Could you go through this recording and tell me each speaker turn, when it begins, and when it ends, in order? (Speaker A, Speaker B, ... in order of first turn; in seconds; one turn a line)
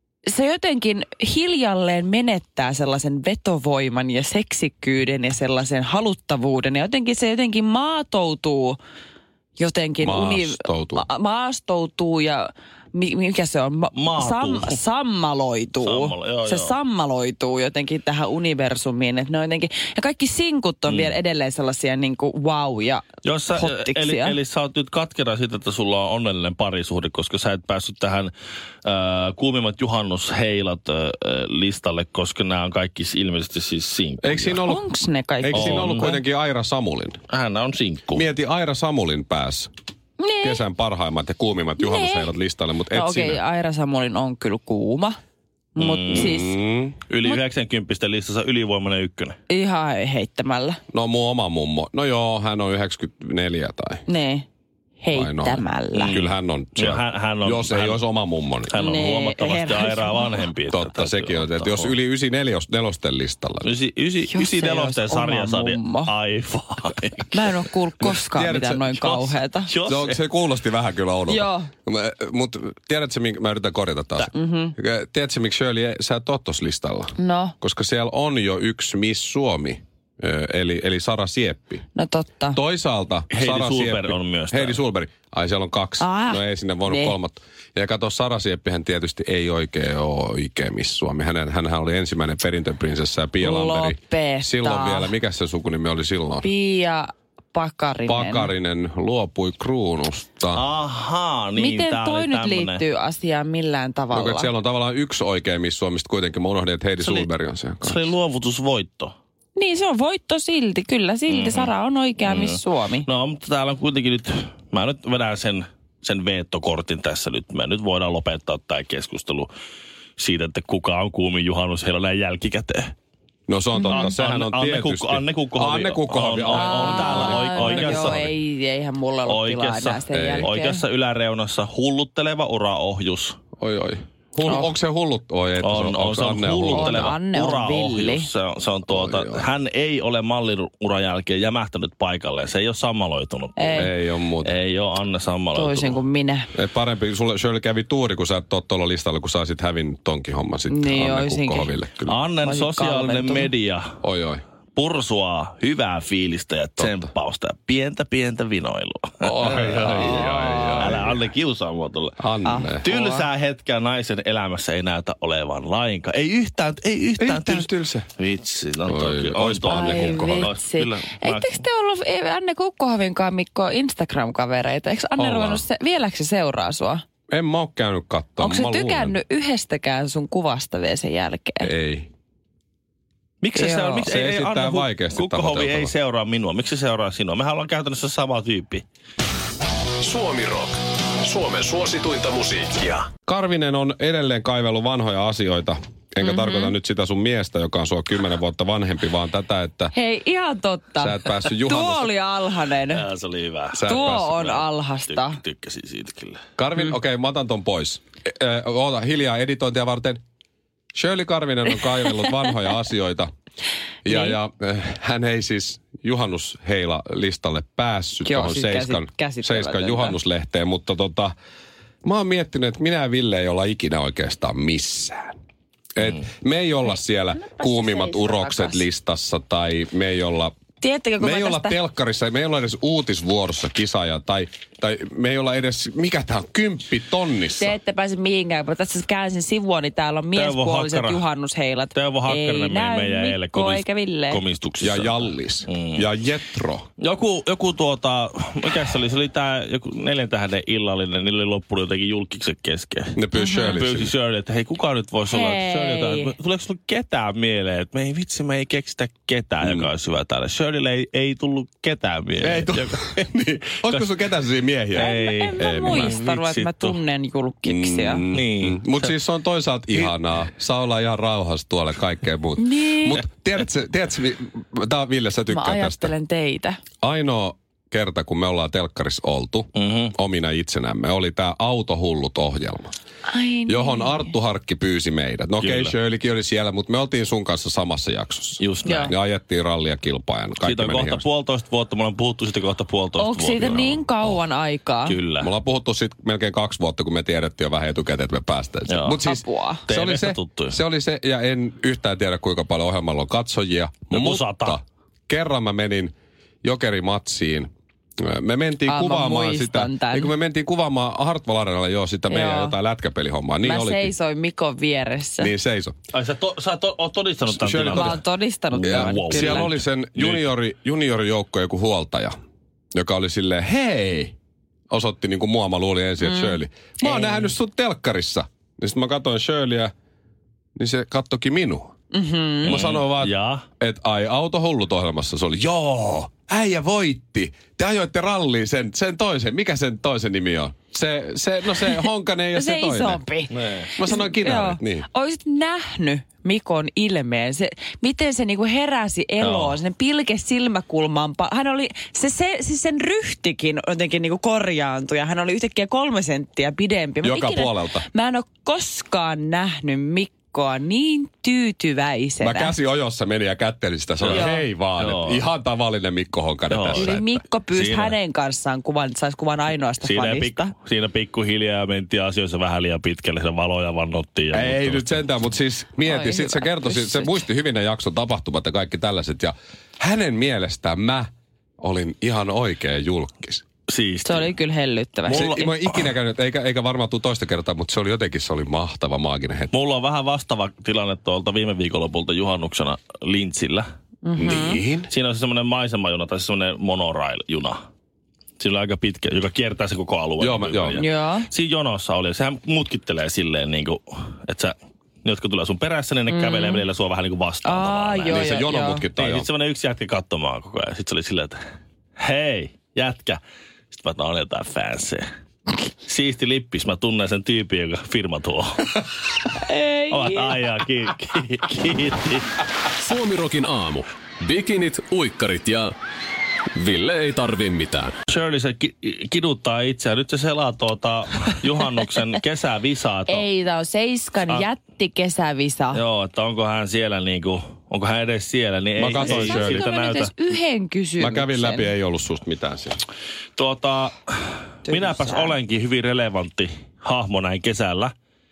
Speaker A: 0.3-8.8
Speaker A: 9.6-24.4
Speaker B: 10.0-11.1
Speaker C: 13.9-14.8
Speaker C: 15.8-16.8
Speaker C: 20.9-21.1
Speaker C: 23.2-28.3
Speaker C: 28.9-34.6
Speaker B: 34.2-34.8
Speaker A: 34.6-36.0
Speaker B: 35.4-37.2
Speaker C: 35.5-36.2
Speaker C: 37.3-38.3
Speaker B: 38.1-39.7
Speaker A: 40.2-40.6
Speaker B: 40.4-43.4
Speaker A: 41.8-42.3
Speaker A: 42.9-45.2
Speaker A: 45.8-46.6
Speaker C: 45.8-46.4
Speaker B: 46.1-47.0
Speaker C: 47.1-49.4
Speaker A: 49.5-50.8
Speaker B: 50.9-54.0
Speaker A: 54.1-54.5
Speaker A: 55.0-56.2
Speaker B: 55.1-58.8
Speaker C: 55.9-58.0
Speaker C: 58.7-62.0
Speaker A: 58.8-60.5
Speaker B: 60.7-63.7
Speaker C: 63.6-67.5
Speaker A: 64.3-66.1
Speaker A: 67.3-69.7
Speaker B: 68.0-69.0
Speaker C: 69.0-70.3
Speaker B: 69.8-81.8
Speaker A: 71.3-71.7
Speaker A: 74.3-74.8
Speaker A: 77.2-77.5
Speaker A: 82.0-82.6
Speaker B: 82.5-96.5
Speaker C: 83.3-84.8
Speaker A: 86.0-87.2
Speaker A: 93.4-95.1
Speaker A: 96.4-98.5
Speaker B: 98.1-100.6
Speaker C: 100.5-102.8
Speaker A: 101.6-104.5
Speaker B: 104.1-108.0
Speaker C: 107.0-107.3
Speaker C: 107.8-109.2
Speaker A: 109.6-113.1
Speaker C: 111.3-119.5
Speaker C: 120.2-122.9
Speaker B: 123.5-128.3
Speaker A: 123.7-124.1
Speaker C: 123.9-128.3
Speaker A: 126.5-130.8
Speaker C: 129.3-133.4
Speaker B: 130.1-130.5
Speaker B: 133.6-137.2
Speaker A: 134.5-134.7
Speaker C: 135.6-146.0
Speaker A: 136.7-138.3
Speaker B: 138.9-139.4
Speaker A: 143.6-143.9
Speaker B: 143.8-144.6
Speaker A: 145.5-146.5
Speaker B: 146.5-152.2
Speaker A: 150.7-151.8
Speaker C: 152.1-153.9
Speaker A: 152.4-153.5
Speaker B: 154.0-154.4
Speaker C: 154.8-162.2
Speaker B: 156.8-157.1
Speaker B: 159.2-161.2
Speaker B: 162.2-162.8
Speaker A: 162.4-163.3
Speaker C: 162.8-171.6
Speaker B: 167.2-168.1
Speaker B: 168.9-170.5
Speaker A: 169.7-177.0
Speaker B: 175.2-175.6
Speaker B: 177.3-179.2
Speaker A: 178.4-181.7
Speaker B: 181.6-182.1
Speaker C: 183.4-188.8
Speaker A: 183.6-184.1
Speaker B: 184.0-185.9
Speaker D: 190.0-193.1
Speaker B: 193.3-199.9
Speaker A: 196.2-196.7
Speaker A: 199.9-203.0
Speaker B: 201.0-202.1
Speaker C: 202.9-206.4
Speaker B: 203.7-204.6
Speaker A: 203.9-205.4
Speaker B: 206.6-210.2
Speaker B: 210.9-213.3
Speaker B: 214.0-221.3
Speaker A: 214.1-214.4
Speaker A: 218.2-220.2
Speaker B: 222.0-225.4
Speaker B: 226.0-230.5
Speaker A: 227.3-228.8
Speaker A: 230.8-231.8
Speaker B: 231.2-237.8
Speaker A: 237.6-244.4
Speaker C: 240.3-241.2
Speaker C: 241.9-246.1
Speaker B: 244.8-246.9
Speaker C: 247.0-253.1
Speaker B: 253.2-254.1
Speaker A: 253.3-253.8
Speaker C: 253.7-263.1
Speaker A: 255.3-256.3
Speaker B: 259.6-259.9
Speaker B: 262.4-266.2
Speaker C: 264.9-267.0
Speaker A: 265.0-268.2
Speaker B: 267.6-276.1
Speaker C: 268.3-269.2
Speaker A: 272.6-273.2
Speaker A: 275.5-276.8
Speaker B: 277.0-282.9
Speaker C: 279.8-280.1
Speaker A: 283.3-284.4
Speaker B: 283.7-291.2
Speaker C: 285.6-285.9
Speaker C: 288.6-289.1
Speaker A: 288.9-289.1
Speaker C: 290.6-294.0
Speaker A: 293.2-295.2
Speaker C: 295.1-295.5
Speaker B: 295.4-306.1
Speaker C: 298.9-299.2
Speaker A: 299.2-299.8
Speaker C: 299.9-300.8
Speaker C: 304.1-304.8
Speaker B: 306.6-307.7
Speaker B: 308.2-314.1
Speaker A: 308.9-310.3
Speaker A: 312.3-312.8
Speaker A: 313.6-315.5
Speaker B: 315.4-316.0
Speaker C: 316.1-318.2
Speaker B: 317.5-318.2
Speaker A: 317.9-319.7
Speaker C: 318.7-320.5
Speaker B: 318.8-322.3
Speaker B: 322.9-324.3
Speaker B: 324.9-329.9
Speaker A: 326.2-327.5
Speaker B: 330.8-331.9
Speaker A: 332.1-332.8
Speaker B: 332.6-343.2
Speaker C: 332.7-333.6
Speaker A: 341.9-362.8
Speaker C: 343.5-343.9
Speaker B: 344.0-345.1
Speaker C: 349.4-349.8
Speaker B: 357.2-358.1
Speaker B: 362.4-367.4
Speaker C: 364.2-365.4
Speaker A: 364.3-364.7
Speaker C: 366.7-368.2
Speaker A: 366.9-370.7
Speaker C: 370.0-375.2
Speaker B: 374.5-381.3
Speaker A: 376.0-377.4
Speaker B: 381.8-383.6
Speaker C: 383.9-384.5
Speaker A: 384.2-385.6
Speaker B: 385.3-389.7
Speaker C: 385.3-386.1
Speaker C: 389.7-393.9
Speaker A: 394.2-394.8
Speaker B: 394.4-395.1
Speaker C: 395.1-397.8
Speaker C: 398.6-408.4
Speaker B: 400.4-401.0
Speaker A: 401.0-401.5
Speaker A: 406.3-406.9
Speaker A: 407.6-409.1
Speaker B: 408.2-409.5
Speaker C: 409.2-411.6
Speaker C: 412.2-413.4
Speaker C: 413.9-415.2
Speaker C: 416.1-419.0
Speaker A: 419.5-420.6
Speaker C: 420.1-422.6
Speaker D: 423.0-425.9
Speaker D: 426.8-428.1
Speaker C: 428.3-433.4
Speaker A: 433.3-436.0
Speaker C: 435.9-440.3
Speaker B: 439.0-439.8
Speaker A: 439.1-441.9
Speaker B: 441.2-443.0
Speaker C: 443.6-448.1
Speaker A: 444.9-445.6